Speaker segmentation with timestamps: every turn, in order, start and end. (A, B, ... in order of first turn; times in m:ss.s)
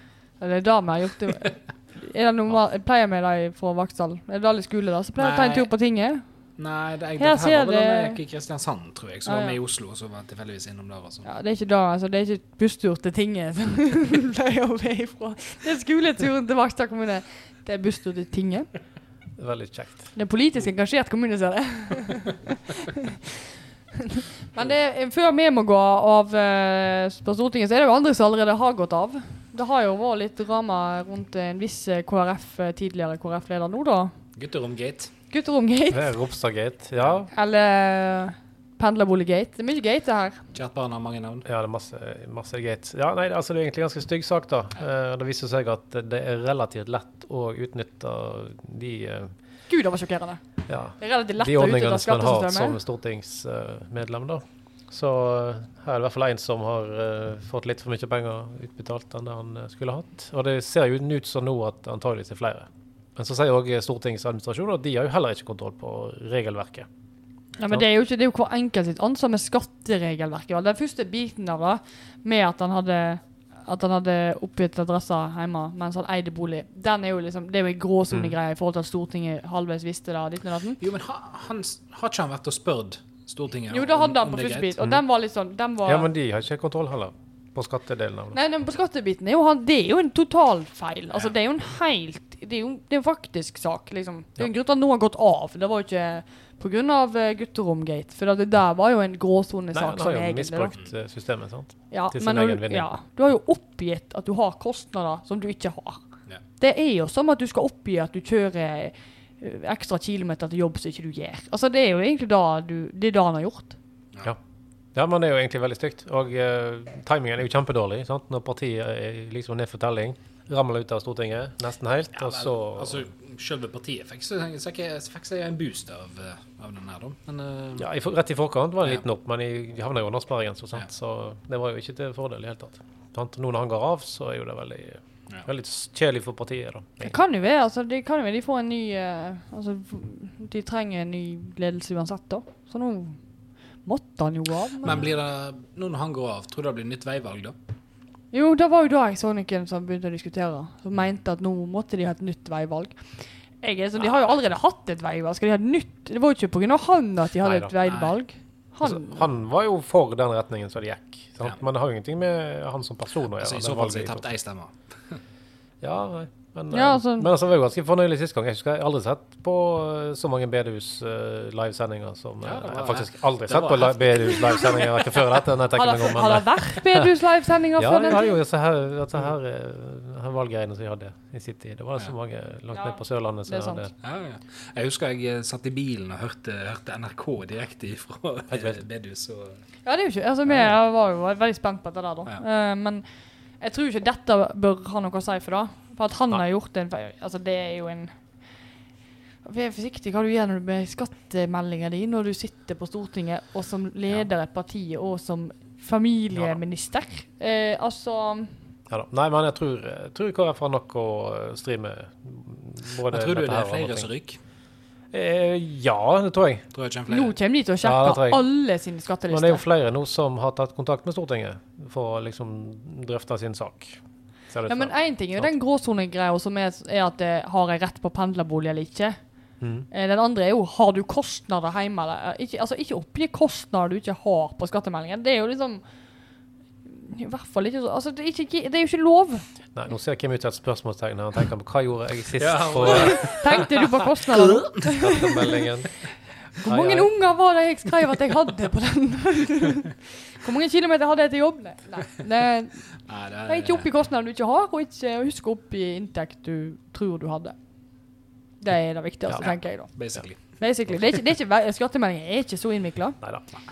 0:00.4-0:06.2 A
0:05.2-0:05.7 B
0:06.6-0:11.3 B
0:07.2-0:08.2 A
0:09.2-0:09.6 A
0:11.2-0:18.7 A
0:19.4-0:20.1 C
0:20.1-0:23.1 A
0:24.0-0:34.1 A
0:34.4-0:35.1 B
0:35.3-0:36.1 A
0:35.9-0:37.3 C
0:37.3-0:40.4 A
0:40.5-0:41.4 B
0:41.4-0:49.3 C
0:49.7-0:50.4 A
0:50.7-1:06.9 C
0:51.0-0:52.8 A
1:07.6-1:20.8 A
1:18.1-1:18.4 C
1:20.8-1:24.7 B
1:23.7-1:26.1 A
1:25.8-1:28.4 C
1:28.3-1:40.7 A
1:39.7-1:42.9 C
1:41.9-1:46.0 A
1:46.6-1:53.8 A
1:54.9-2:03.1 C
2:02.2-2:07.9 B
2:07.8-2:17.1 C
2:17.0-2:23.2 A
2:23.8-2:25.0 A
2:24.8-2:27.6 B
2:28.3-2:33.0 A
2:33.6-2:39.2 A
2:37.4-2:37.7 C
2:37.8-2:38.2 B
2:38.8-2:44.2 C
2:43.4-2:45.2 B
2:45.8-2:57.1 C
2:46.7-2:47.3 A
2:52.4-2:54.9 B
2:54.4-2:54.9 A
2:55.7-2:58.4 A
2:57.8-3:03.9 C
3:02.7-3:03.9 A
3:04.0-3:09.6 B
3:08.5-3:08.8 C
3:09.8-3:13.0 A
3:13.6-3:18.1 A
3:19.4-3:28.5 A
3:28.9-3:34.1 C
3:33.0-3:34.4 B
3:35.1-3:36.6 C
3:36.7-3:37.3 B
3:37.1-3:39.6 A
3:37.8-3:38.4 C
3:39.3-3:44.0 C
3:44.5-3:45.5 C
3:44.7-3:49.2 A
3:49.6-3:49.9 C
3:49.9-3:55.8 A
3:56.8-3:59.4 A
3:59.7-4:03.6 C
4:02.4-4:03.7 B
4:02.8-4:05.6 A
4:04.3-4:04.8 B
4:04.8-4:05.9 C
4:06.6-4:12.8 A
4:06.6-4:07.1 C
4:13.1-4:13.8 B
4:13.4-4:17.6 A
4:18.6-4:23.2 A
4:19.4-4:20.6 B